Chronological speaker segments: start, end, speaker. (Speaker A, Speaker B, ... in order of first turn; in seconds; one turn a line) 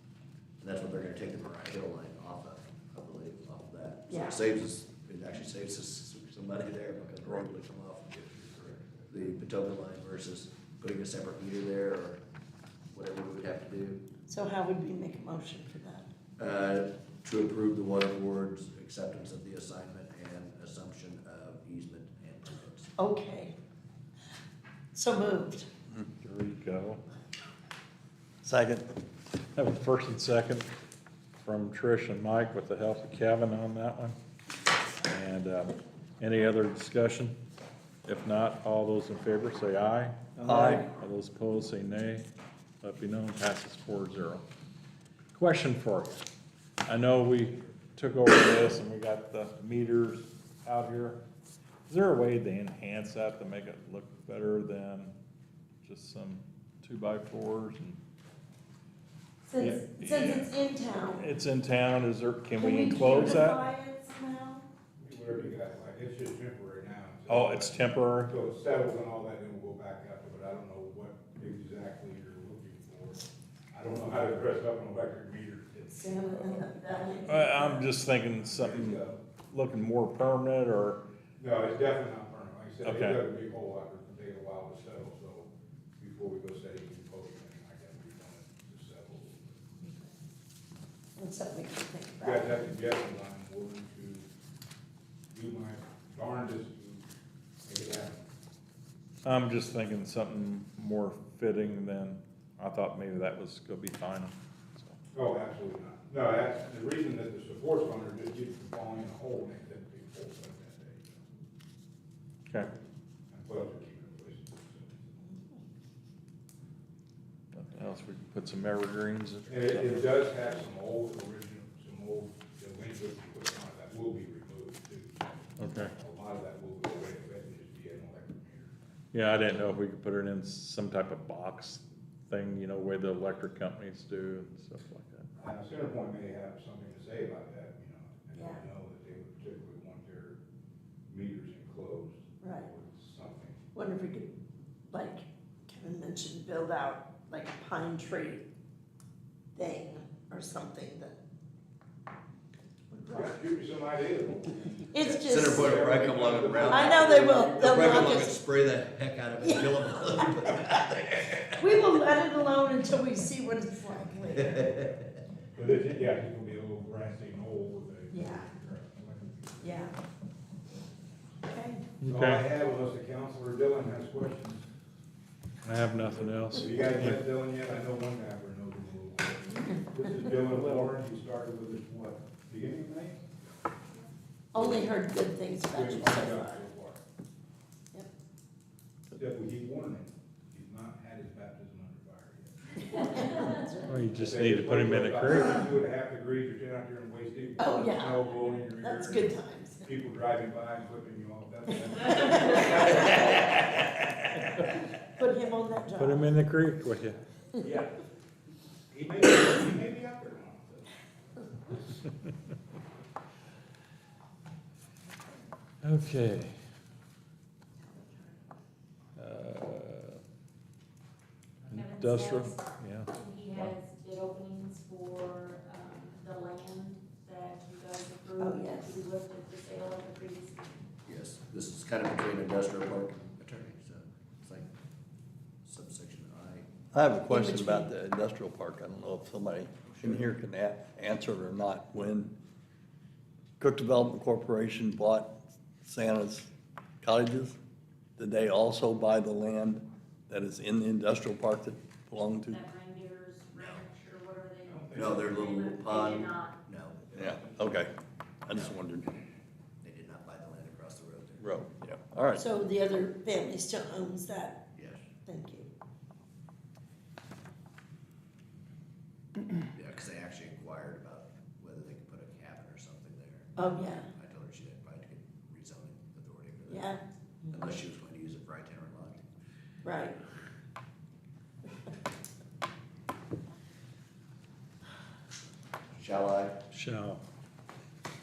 Speaker A: 0.6-12.2
Speaker B: 4.1-4.4
Speaker A: 12.9-14.0
Speaker B: 14.3-16.1
Speaker A: 16.4-22.9
Speaker B: 23.0-23.6
Speaker B: 24.9-25.7
Speaker C: 26.2-27.0
Speaker D: 28.4-28.9
Speaker C: 29.5-30.7
Speaker C: 31.4-34.1
Speaker C: 35.0-37.4
Speaker C: 38.0-42.2
Speaker D: 40.4-40.9
Speaker C: 42.8-44.4
Speaker C: 45.3-46.2
Speaker C: 46.9-51.2
Speaker C: 51.9-55.1
Speaker C: 55.8-58.0
Speaker B: 59.5-61.3
Speaker C: 59.6-60.5
Speaker C: 61.0-63.6
Speaker B: 62.5-64.7
Speaker E: 65.0-77.4
Speaker C: 67.3-68.3
Speaker B: 75.9-77.9
Speaker C: 77.2-81.0
Speaker E: 78.3-79.2
Speaker E: 81.4-89.6
Speaker C: 82.8-83.2
Speaker B: 91.2-92.7
Speaker E: 92.2-94.3
Speaker E: 95.3-97.0
Speaker E: 97.6-98.2
Speaker C: 99.2-105.0
Speaker E: 105.1-111.2
Speaker E: 113.3-115.0
Speaker B: 115.3-115.6
Speaker C: 117.5-120.5
Speaker E: 119.5-128.8
Speaker C: 125.6-125.9
Speaker C: 129.1-135.2
Speaker E: 135.4-140.4
Speaker B: 138.3-138.6
Speaker E: 141.1-143.6
Speaker B: 142.4-142.7
Speaker B: 143.7-144.3
Speaker B: 144.9-148.4
Speaker B: 149.6-151.2
Speaker B: 152.9-153.4
Speaker E: 153.1-154.7
Speaker B: 154.9-155.8
Speaker A: 155.0-161.9
Speaker E: 155.4-158.3
Speaker B: 156.7-158.4
Speaker B: 159.4-160.3
Speaker B: 161.6-164.6
Speaker A: 164.4-165.1
Speaker E: 165.5-169.9
Speaker B: 168.1-168.5
Speaker B: 169.6-169.9
Speaker B: 171.4-171.8
Speaker C: 172.0-172.4
Speaker E: 172.0-174.6
Speaker C: 175.6-177.2
Speaker E: 176.0-183.2
Speaker C: 180.6-180.9
Speaker B: 184.5-186.6
Speaker E: 184.5-184.9
Speaker E: 185.7-187.0
Speaker E: 189.1-193.6
Speaker B: 192.9-194.0
Speaker C: 193.8-195.6
Speaker E: 194.1-203.9
Speaker B: 197.6-199.9
Speaker B: 202.0-203.1
Speaker B: 205.2-206.3
Speaker C: 206.0-207.2
Speaker E: 207.6-208.0
Speaker E: 208.9-212.0
Speaker C: 215.8-216.5
Speaker C: 219.2-220.2
Speaker C: 221.7-223.7
Speaker F: 221.7-230.8
Speaker B: 228.4-229.0
Speaker A: 231.1-234.7
Speaker A: 235.6-236.7
Speaker D: 236.9-242.3
Speaker B: 237.3-237.9
Speaker A: 239.8-240.3
Speaker D: 243.6-246.5
Speaker D: 247.0-247.6
Speaker D: 248.2-252.6
Speaker F: 252.4-256.6
Speaker A: 253.5-253.8
Speaker E: 254.6-255.6
Speaker A: 254.9-257.2
Speaker E: 257.1-257.9
Speaker D: 257.1-257.9
Speaker D: 258.4-259.1
Speaker A: 259.8-261.5
Speaker D: 261.4-262.4
Speaker B: 262.3-264.6
Speaker A: 264.7-265.0
Speaker B: 265.2-265.7
Speaker A: 269.7-273.6
Speaker B: 273.6-274.1
Speaker A: 274.1-276.9
Speaker B: 276.7-277.6
Speaker A: 277.5-279.2
Speaker B: 279.8-280.2
Speaker A: 285.9-286.6
Speaker C: 286.7-287.2